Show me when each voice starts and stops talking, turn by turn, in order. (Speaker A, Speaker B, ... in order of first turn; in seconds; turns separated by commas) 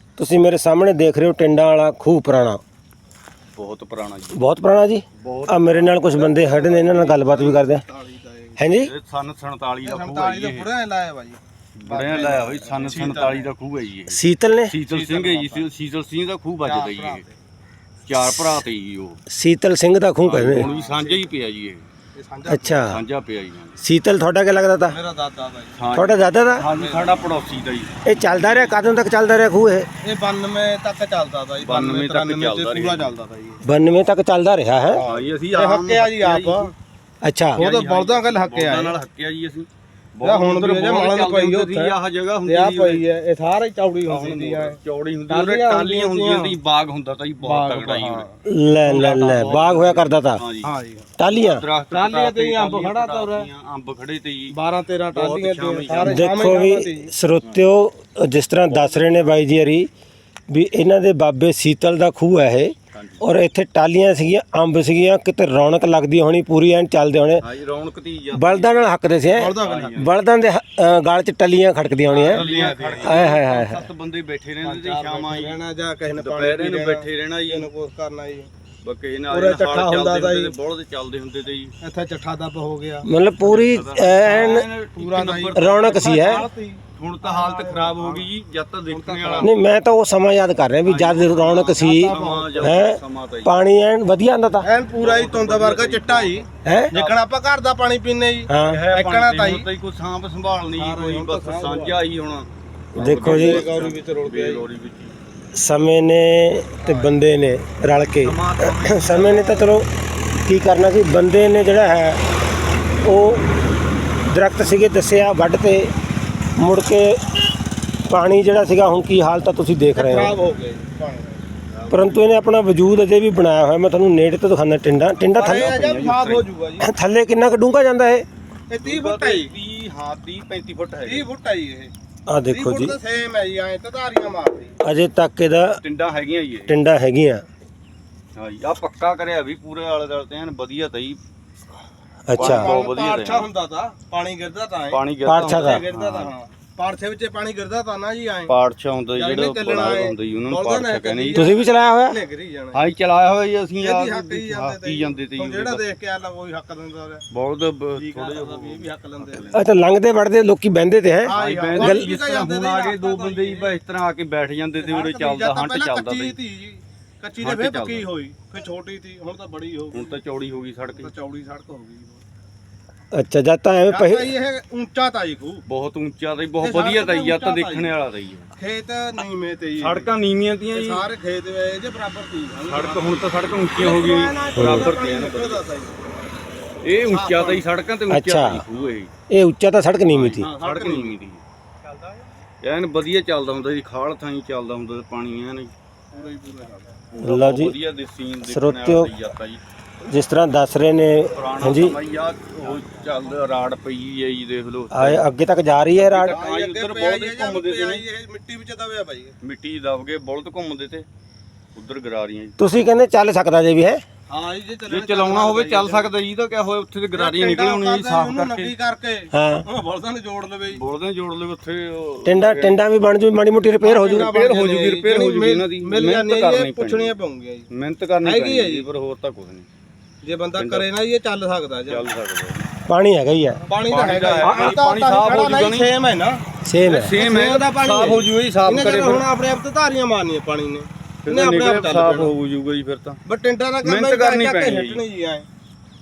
Speaker A: 0.2-2.6, Speaker B: 3.6-4.4, Speaker A: 4.3-7.8, Speaker B: 5.2-6.3, Speaker C: 6.2-8.7, Speaker A: 8.6-8.9, Speaker B: 8.8-10.7, Speaker C: 9.8-13.5, Speaker B: 11.8-17.3, Speaker A: 14.1-14.7, Speaker C: 14.9-15.7, Speaker C: 16.6-17.3, Speaker B: 18.1-19.2, Speaker A: 18.2-18.6, Speaker A: 19.3-20.7, Speaker B: 20.2-21.8, Speaker C: 20.6-21.3, Speaker C: 22.1-22.9, Speaker A: 22.5-23.0, Speaker B: 22.9-23.8, Speaker A: 23.8-25.0, Speaker C: 24.9-25.9, Speaker B: 25.8-28.8, Speaker A: 25.9-26.7, Speaker C: 26.8-27.3, Speaker A: 28.0-29.9, Speaker C: 30.0-33.6, Speaker B: 31.6-33.1, Speaker A: 33.6-35.0, Speaker C: 34.9-36.7, Speaker B: 35.1-36.7, Speaker A: 37.2-37.6, Speaker C: 37.5-39.0, Speaker B: 37.5-43.0, Speaker C: 40.2-44.8, Speaker B: 44.1-48.3, Speaker C: 45.3-46.5, Speaker C: 47.4-49.4, Speaker A: 48.5-50.4, Speaker B: 49.2-50.7, Speaker C: 50.6-51.1, Speaker A: 51.2-51.6, Speaker B: 51.3-54.6, Speaker C: 51.9-53.5, Speaker C: 54.5-57.1, Speaker B: 55.1-56.6, Speaker A: 56.0-59.9, Speaker B: 57.4-57.7, Speaker B: 58.7-59.4, Speaker A: 60.5-67.5, Speaker B: 62.9-63.2, Speaker B: 67.4-68.9, Speaker A: 68.3-72.4, Speaker C: 69.3-70.0, Speaker B: 69.5-70.1, Speaker C: 72.1-73.3, Speaker B: 72.2-75.6, Speaker A: 73.0-73.8, Speaker C: 74.6-78.5, Speaker B: 76.1-77.7, Speaker B: 78.8-81.8, Speaker C: 79.3-80.5, Speaker C: 81.8-83.1, Speaker A: 83.0-84.7, Speaker B: 83.4-89.5, Speaker C: 85.0-88.3, Speaker A: 85.5-86.4, Speaker C: 88.9-89.5, Speaker A: 89.4-94.7, Speaker B: 90.8-93.5, Speaker C: 91.7-92.8, Speaker C: 94.6-99.7, Speaker B: 94.9-97.2, Speaker A: 96.7-96.9, Speaker A: 98.5-98.8, Speaker B: 98.7-105.2, Speaker C: 100.8-102.0, Speaker A: 102.9-103.7, Speaker C: 103.2-104.6, Speaker A: 105.5-112.2, Speaker C: 106.8-107.2, Speaker B: 108.2-109.3, Speaker C: 108.6-109.7, Speaker A: 113.0-113.5, Speaker A: 114.2-115.9, Speaker A: 116.6-117.4, Speaker A: 118.1-120.3, Speaker C: 120.0-121.6, Speaker B: 121.7-122.2, Speaker A: 121.9-125.9, Speaker C: 125.3-126.9, Speaker B: 125.4-126.5, Speaker A: 126.8-128.2, Speaker C: 128.7-129.5, Speaker B: 128.8-131.3, Speaker C: 131.1-131.9, Speaker A: 132.3-133.0, Speaker C: 132.5-134.8, Speaker A: 134.8-135.8, Speaker B: 135.8-136.8, Speaker A: 136.7-137.4, Speaker B: 138.4-141.2, Speaker A: 142.3-142.7, Speaker B: 142.3-143.5, Speaker C: 142.4-148.5, Speaker B: 144.9-146.3, Speaker A: 145.3-145.8, Speaker B: 148.5-151.5, Speaker C: 149.2-152.8, Speaker A: 151.3-152.2, Speaker B: 152.7-155.9, Speaker C: 153.8-157.2, Speaker B: 157.3-159.7, Speaker C: 158.0-159.5, Speaker A: 159.5-162.1, Speaker C: 161.2-163.7, Speaker B: 161.3-166.4, Speaker C: 164.8-170.1, Speaker B: 167.4-168.1, Speaker B: 169.9-171.1, Speaker C: 170.9-172.2, Speaker A: 173.1-174.3, Speaker C: 173.9-175.6, Speaker B: 175.7-178.5, Speaker C: 176.6-177.9, Speaker C: 178.6-180.1, Speaker B: 179.8-181.1, Speaker C: 180.8-183.2, Speaker B: 182.6-185.7, Speaker C: 183.8-186.0, Speaker A: 184.6-184.9, Speaker B: 186.8-189.1, Speaker C: 187.1-187.7, Speaker A: 188.1-188.6, Speaker A: 189.3-190.5, Speaker B: 190.1-191.4, Speaker C: 190.4-191.1, Speaker B: 192.6-195.7, Speaker C: 196.1-197.0, Speaker B: 197.1-199.6, Speaker A: 197.2-197.8, Speaker A: 198.5-199.1, Speaker A: 200.1-202.0, Speaker B: 201.3-205.2, Speaker C: 202.8-203.2, Speaker A: 204.9-206.4, Speaker B: 205.9-208.1, Speaker C: 206.3-209.3, Speaker B: 209.4-211.1, Speaker B: 211.8-212.6, Speaker A: 212.6-214.0, Speaker C: 214.3-216.1, Speaker B: 214.9-218.7, Speaker C: 217.2-220.8, Speaker A: 219.3-219.7, Speaker B: 220.7-222.8, Speaker A: 222.3-224.3, Speaker C: 223.8-227.7, Speaker B: 224.0-227.2, Speaker B: 227.7-229.7, Speaker C: 228.2-228.9, Speaker C: 230.2-232.1, Speaker B: 230.6-230.9, Speaker B: 231.9-232.7, Speaker A: 232.9-233.7, Speaker C: 233.7-236.4, Speaker B: 233.9-235.9, Speaker A: 234.4-234.7, Speaker A: 236.6-237.2, Speaker B: 236.9-239.2, Speaker C: 237.2-242.3, Speaker B: 241.2-243.2, Speaker C: 243.3-245.5, Speaker B: 243.8-245.0